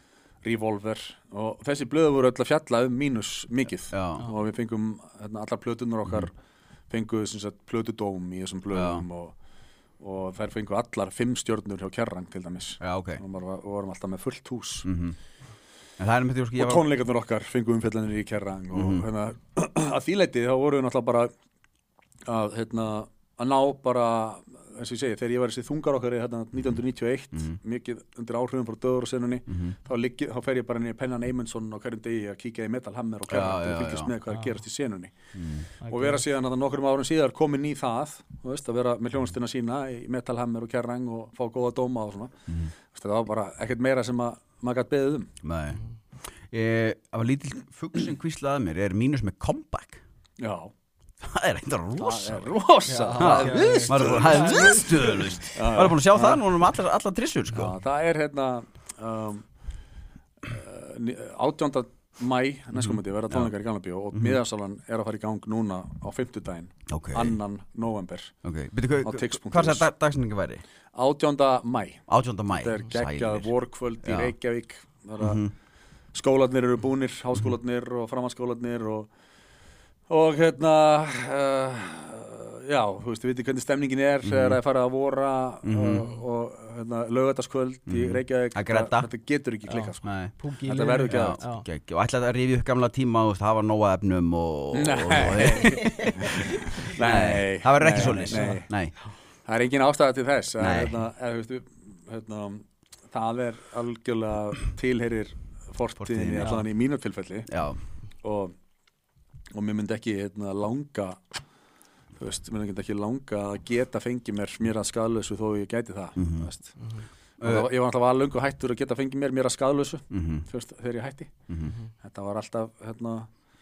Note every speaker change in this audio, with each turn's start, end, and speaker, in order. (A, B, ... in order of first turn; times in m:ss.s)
0:00.4-0:06.3 A
0:03.9-0:04.3 B
0:06.9-0:09.4 A
0:08.7-0:09.1 B
0:10.0-0:14.9 A
0:12.8-0:13.2 B
0:14.8-0:15.2 B
0:16.0-0:16.9 B
0:16.6-0:21.3 A
0:18.7-0:19.0 B
0:22.3-0:35.1 A
0:33.3-0:34.1 B
0:35.3-0:35.7 B
0:35.8-0:36.2 C
0:35.8-0:42.3 A
0:42.9-0:45.3 A
0:45.4-0:45.8 B
0:46.5-0:50.0 B
0:50.4-0:50.7 A
0:51.2-0:52.5 B
0:52.0-0:55.0 A
0:52.9-0:55.3 C
0:53.2-0:57.7 B
0:55.5-0:56.4 A
0:57.5-0:59.4 A
1:00.4-1:08.3 A
1:04.1-1:04.4 B
1:06.9-1:07.4 B
1:08.4-1:10.6 B
1:09.0-1:09.9 A
1:10.9-1:15.4 A
1:12.1-1:13.5 B
1:14.0-1:14.3 B
1:15.2-1:15.5 B
1:16.1-1:19.1 A
1:20.1-1:30.1 A
1:24.2-1:24.6 B
1:25.6-1:26.1 B
1:27.9-1:29.1 B
1:29.7-1:31.6 C
1:30.0-1:30.4 B
1:30.6-1:31.4 A
1:31.1-1:39.0 B
1:34.7-1:38.7 A
1:35.8-1:36.4 C
1:38.0-1:39.1 C
1:39.5-1:47.5 A
1:40.6-1:41.0 B
1:46.0-1:46.6 B
1:46.4-1:46.6 C
1:47.5-1:47.8 B
1:48.2-1:48.5 A
1:49.6-1:51.2 A
1:52.2-1:56.8 A
1:56.2-1:56.5 B
1:57.4-2:01.3 A
1:57.4-1:57.7 B
2:00.1-2:00.5 B
2:01.5-2:01.8 B
2:02.0-2:03.3 A